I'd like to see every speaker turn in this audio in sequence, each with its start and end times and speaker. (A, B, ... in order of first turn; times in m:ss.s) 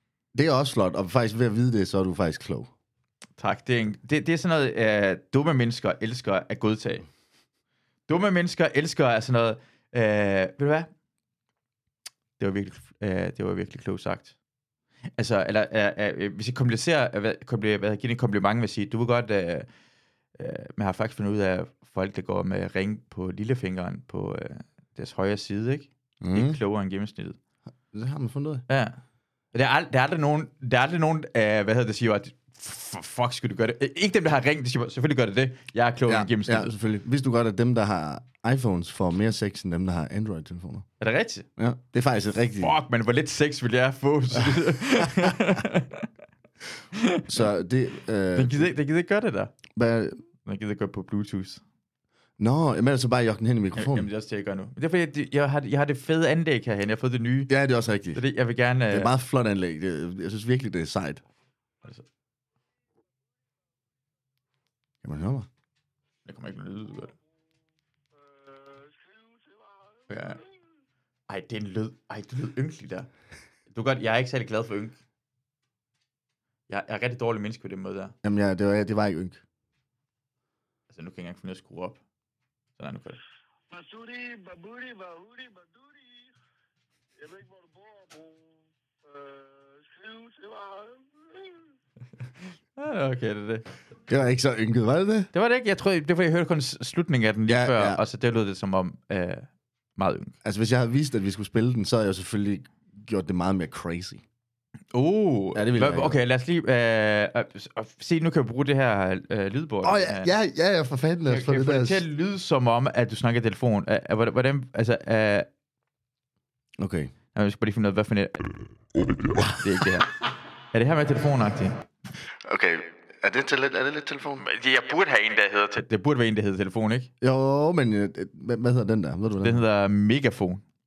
0:00.3-0:02.7 A
0:03.4-0:07.1 B
0:08.1-0:10.9 B
0:12.4-0:14.3 B
0:15.2-0:19.7 B
0:20.4-0:27.4 B
0:26.2-0:26.6 A
0:27.9-0:28.6 A
0:28.7-0:29.0 B
0:29.5-0:36.7 B
0:36.1-0:40.9 A
0:41.0-0:41.5 B
0:41.6-0:42.8 A
0:42.6-0:46.1 B
0:44.4-0:45.6 A
0:46.9-0:47.4 B
0:47.3-0:48.7 A
0:48.4-0:49.6 B
0:49.7-0:50.2 A
0:50.5-0:51.6 B
0:52.4-0:54.1 A
0:53.8-0:57.5 B
0:57.5-0:58.2 A
0:58.2-0:59.1 B
0:58.9-1:01.2 A
1:05.0-1:05.5 A
1:06.3-1:07.1 B
1:08.2-1:10.5 C
1:10.1-1:10.4 B
1:11.3-1:13.1 B
1:13.7-1:15.0 B
1:16.7-1:18.1 B
1:18.2-1:19.4 A
1:20.9-1:22.0 B
1:22.8-1:23.2 B
1:23.7-1:26.3 C
1:27.2-1:28.4 C
1:29.1-1:31.6 C
1:32.8-1:33.7 B
1:34.1-1:35.3 A
1:35.3-1:40.3 B
1:37.5-1:38.0 A
1:40.4-1:44.2 A
1:44.9-1:50.3 B
1:45.6-1:46.2 A
1:49.8-1:52.0 A
1:51.3-1:55.5 B
1:56.8-1:57.1 A
1:57.3-1:58.5 B
1:59.3-1:59.6 A
1:59.5-2:00.1 B
2:00.7-2:01.8 B
2:02.4-2:04.4 A
2:04.4-2:07.1 B
2:07.2-2:09.6 A
2:09.4-2:10.6 B